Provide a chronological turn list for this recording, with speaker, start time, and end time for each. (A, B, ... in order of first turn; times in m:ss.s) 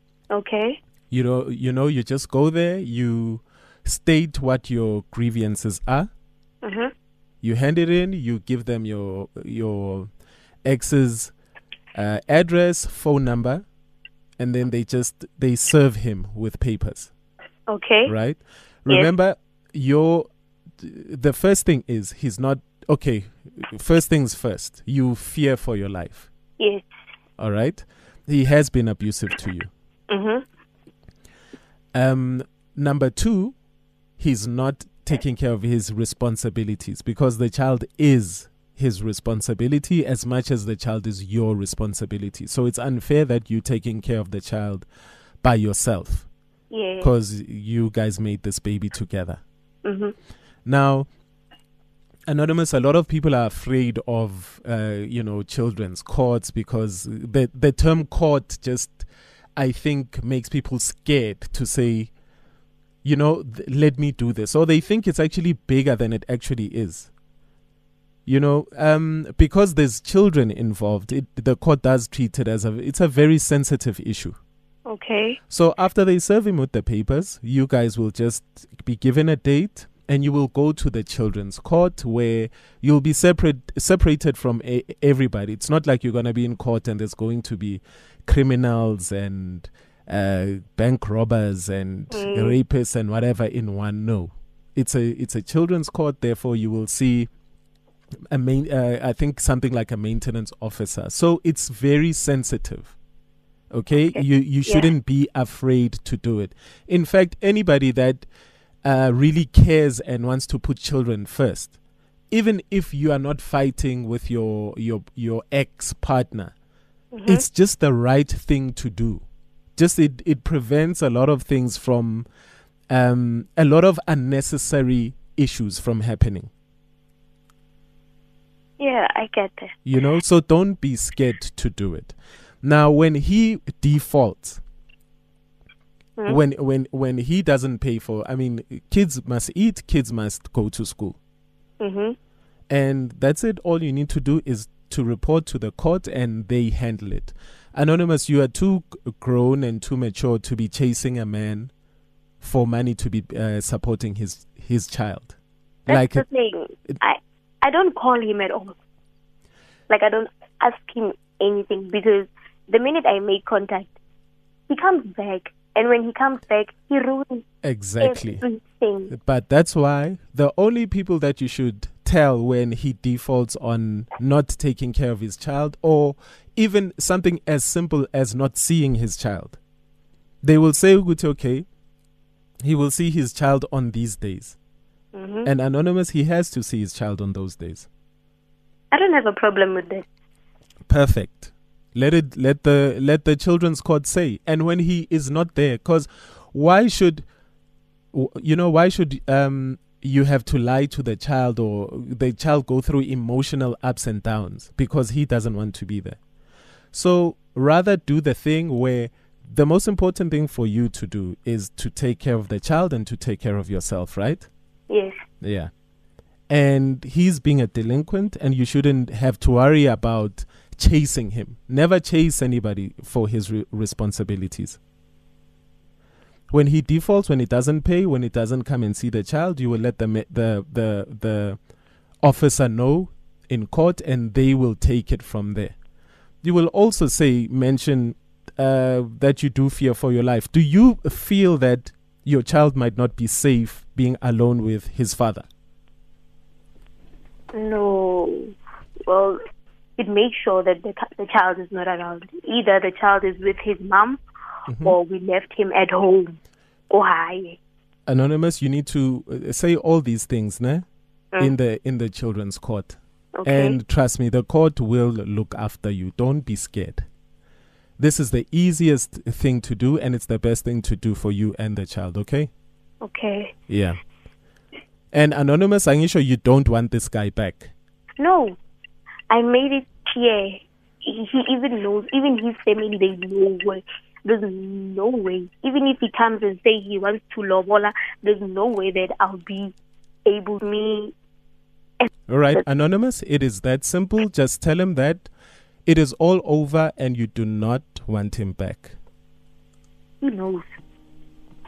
0:00.3-0:00.8 A
0:01.1-0:06.1 B
0:06.6-0:06.9 A
0:07.4-0:10.1 B
0:10.6-0:11.3 B
0:11.9-0:13.6 B
0:14.4-0:17.1 B
0:17.7-0:18.1 A
0:18.0-0:26.3 B
0:26.6-0:26.8 A
0:27.4-0:29.7 B
0:30.1-0:30.4 A
0:31.9-0:33.6 B
0:34.2-0:44.9 B
0:45.4-0:46.3 B
0:46.7-0:47.1 A
0:47.0-0:49.4 B
0:49.8-0:50.1 A
0:50.6-0:51.1 B
0:52.3-1:02.1 B
1:03.0-1:07.1 B
1:08.2-1:14.4 B
1:14.9-1:15.4 A
1:15.5-1:37.3 B
1:32.1-1:32.6 A
1:38.3-1:42.9 B
1:43.7-1:48.3 B
1:44.1-1:44.9 A
1:48.8-1:51.8 B
1:52.3-1:56.5 B
1:57.1-1:57.4 A
1:57.2-1:59.2 B
1:59.8-2:02.3 B
2:02.9-2:06.5 B
2:08.8-2:09.7 A
2:09.8-2:14.6 B
2:16.3-2:21.2 B
2:21.8-2:22.2 A
2:22.7-2:31.7 B
2:32.4-2:35.4 B
2:35.9-2:36.2 B
2:35.9-2:38.8 A
2:39.9-2:43.9 A
2:44.7-2:47.4 A
2:47.6-2:48.4 B
2:48.0-2:49.1 A
2:49.1-2:59.6 B
3:00.4-3:01.6 B
3:02.6-3:04.6 B
3:05.1-3:05.5 A
3:05.4-3:07.9 B
3:08.9-3:10.0 A
3:10.9-3:17.3 B
3:18.1-3:26.2 B
3:26.9-3:34.5 B
3:34.9-3:35.2 A
3:35.4-3:35.7 B
3:36.5-3:44.8 B
3:46.5-3:51.6 B
3:52.2-3:55.8 B
3:56.4-4:05.4 B
4:07.5-4:08.5 A
4:09.1-4:09.4 A
4:10.0-4:14.2 A
4:14.7-4:15.0 B
4:14.8-4:16.4 A
4:16.9-4:17.6 A
4:18.1-4:20.8 B
4:21.4-4:27.1 B
4:23.4-4:23.8 A
4:28.0-4:32.5 B
4:33.0-4:33.5 A
4:33.7-4:34.0 B
4:35.1-4:37.7 B
4:38.2-4:38.6 A
4:39.3-4:49.7 A
4:50.2-4:51.1 A
4:52.0-4:52.6 A
4:52.3-4:55.3 B
4:55.8-4:59.0 B
5:00.2-5:00.6 A